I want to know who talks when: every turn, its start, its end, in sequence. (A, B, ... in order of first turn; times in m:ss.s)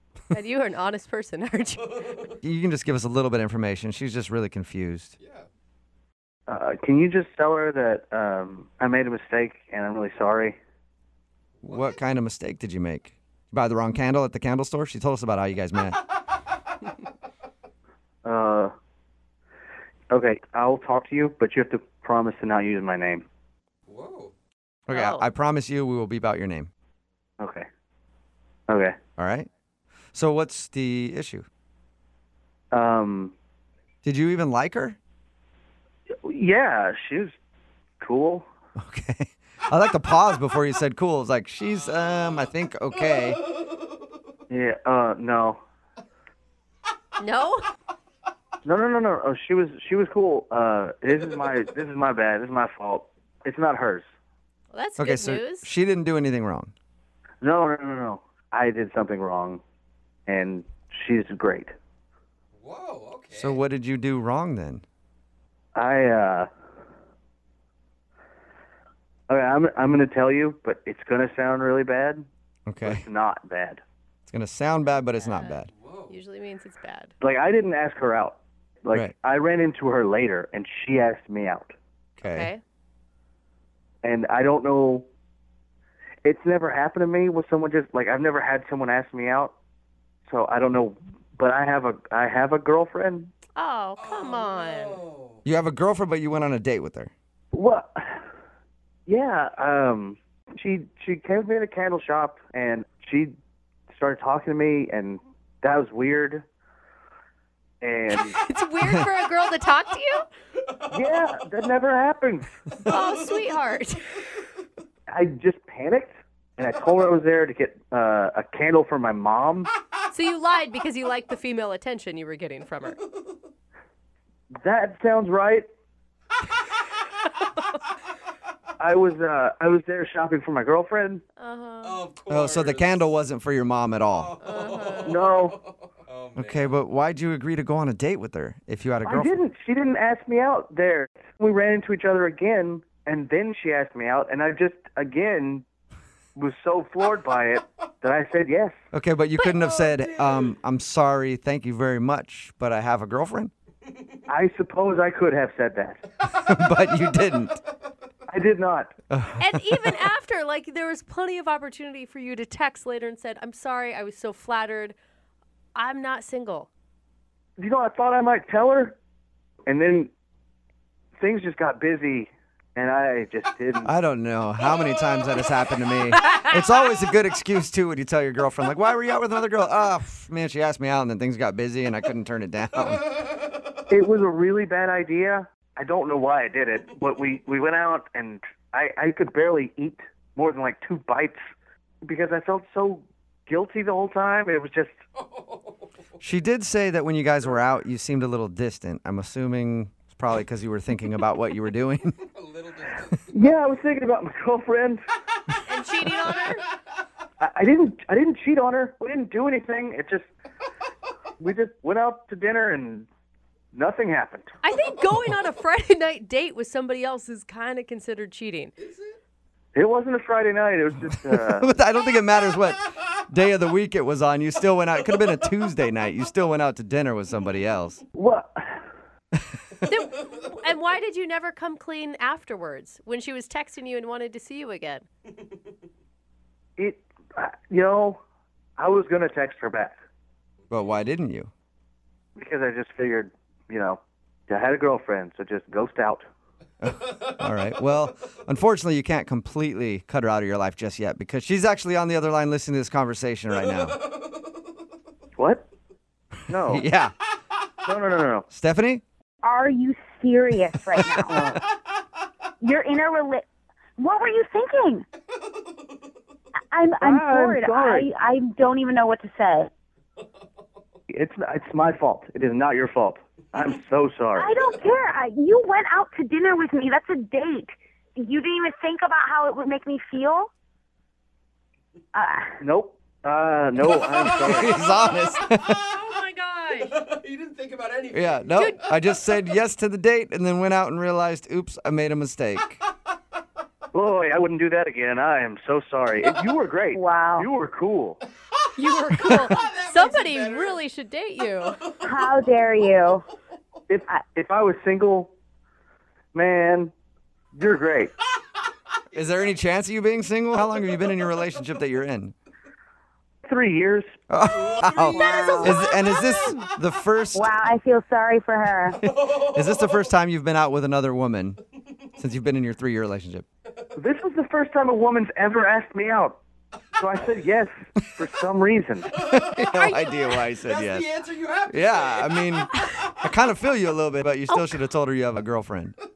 0:00.3-0:02.1 A
0:02.4-0:05.1 B
0:05.2-0:05.5 C
0:06.5-0:10.6 D
0:11.6-0:16.0 B
0:18.2-0:18.7 D
0:20.1-0:23.3 D
0:23.9-0:24.3 C
0:24.9-0:26.7 B
0:24.9-0:25.3 A
0:27.4-0:27.7 D
0:28.7-0:29.0 D
0:29.2-0:29.5 B
0:30.1-0:31.5 B
0:32.7-0:33.3 D
0:34.0-0:35.0 B
0:36.2-0:37.4 D
0:38.0-0:38.5 D
0:38.8-0:43.4 B
0:44.5-0:45.6 D
0:47.2-0:47.7 A
0:48.6-0:54.1 D
0:54.7-0:55.7 A
0:55.0-0:56.7 B
0:57.4-0:59.6 D
1:00.3-1:01.8 D
1:02.6-1:03.6 C
1:03.3-1:04.8 B
1:05.8-1:06.5 D
1:09.3-1:12.2 D
1:12.7-1:13.0 B
1:12.8-1:13.8 D
1:14.3-1:15.7 B
1:15.2-1:15.6 A
1:15.8-1:16.2 C
1:16.1-1:17.1 A
1:17.2-1:21.7 D
1:22.2-1:22.5 B
1:22.2-1:22.6 A
1:24.0-1:25.0 D
1:26.2-1:29.5 D
1:30.3-1:33.4 D
1:33.6-1:35.0 A
1:34.0-1:35.4 C
1:35.4-1:37.1 B
1:37.5-1:38.2 D
1:39.1-1:43.3 D
1:43.9-1:46.5 D
1:47.8-1:48.4 D
1:48.1-1:50.2 A
1:50.9-1:52.6 D
1:52.8-1:54.1 A
1:55.1-1:59.7 D
2:00.1-2:03.0 A
2:04.6-2:05.6 D
2:08.8-2:11.2 D
2:11.4-2:12.1 A
2:11.8-2:13.0 C
2:12.3-2:14.4 B
2:14.2-2:15.6 C
2:14.4-2:15.2 A
2:15.0-2:15.6 D
2:16.1-2:16.7 C
2:16.4-2:19.4 B
2:19.1-2:25.6 D
2:26.4-2:28.8 D
2:28.9-2:33.5 B
2:29.4-2:30.1 A
2:34.3-2:36.0 D
2:36.3-2:37.6 B
2:38.3-2:38.9 D
2:39.1-2:39.5 B
2:39.4-2:45.0 A
2:45.8-2:46.7 A
2:47.6-2:49.0 D
2:49.7-2:50.1 D
2:51.2-2:53.9 D
2:53.8-3:03.1 B
3:03.9-3:11.4 D
3:12.0-3:15.0 D
3:16.2-3:22.2 B
3:22.4-3:23.2 C
3:23.3-3:25.0 D
3:25.6-3:26.6 A
3:27.4-3:30.3 D
3:31.4-3:33.1 D
3:33.7-3:34.6 D
3:34.6-3:38.7 A
3:39.8-3:41.7 D
3:41.3-3:48.0 B
3:48.2-3:48.8 D
3:49.9-3:55.1 A
3:56.8-3:58.2 D
3:58.8-4:00.0 D
4:00.7-4:01.5 B
4:02.4-4:06.3 D
4:06.8-4:14.1 B
4:15.4-4:15.7 D
4:16.5-4:16.8 D
4:16.7-4:17.1 B
4:17.8-4:18.5 D
4:18.5-4:19.0 B
4:19.4-4:21.6 E
4:21.0-4:21.3 B
4:21.3-4:21.6 D
4:22.6-4:23.4 E
4:24.0-4:25.0 E
4:26.7-4:29.7 E
4:27.0-4:28.1 D
4:31.1-4:34.5 D
4:34.4-4:40.5 E
4:42.1-4:42.6 E
4:42.6-4:44.8 D
4:44.4-4:45.8 B
4:45.8-4:47.0 A
4:46.8-4:48.8 C
4:48.1-4:52.8 B
4:48.6-4:48.8 A
4:53.9-4:58.2 D
4:56.9-4:57.5 E
4:58.8-5:01.8 A
4:59.3-4:59.5 B
4:59.5-5:00.8 C
5:02.0-5:03.2 E
5:03.9-5:05.3 D
5:06.3-5:06.9 D
5:07.5-5:08.1 D
5:09.1-5:12.3 B
5:13.4-5:14.1 D
5:14.3-5:17.5 B
5:14.7-5:15.7 C
5:15.1-5:15.7 E
5:15.6-5:16.7 A
5:17.3-5:19.0 E
5:19.0-5:21.6 B
5:22.2-5:23.4 B
5:24.0-5:26.4 D
5:27.0-5:29.1 D
5:29.2-5:31.2 B
5:29.7-5:30.4 A
5:30.7-5:32.4 C
5:31.7-5:36.0 B
5:32.8-5:33.1 A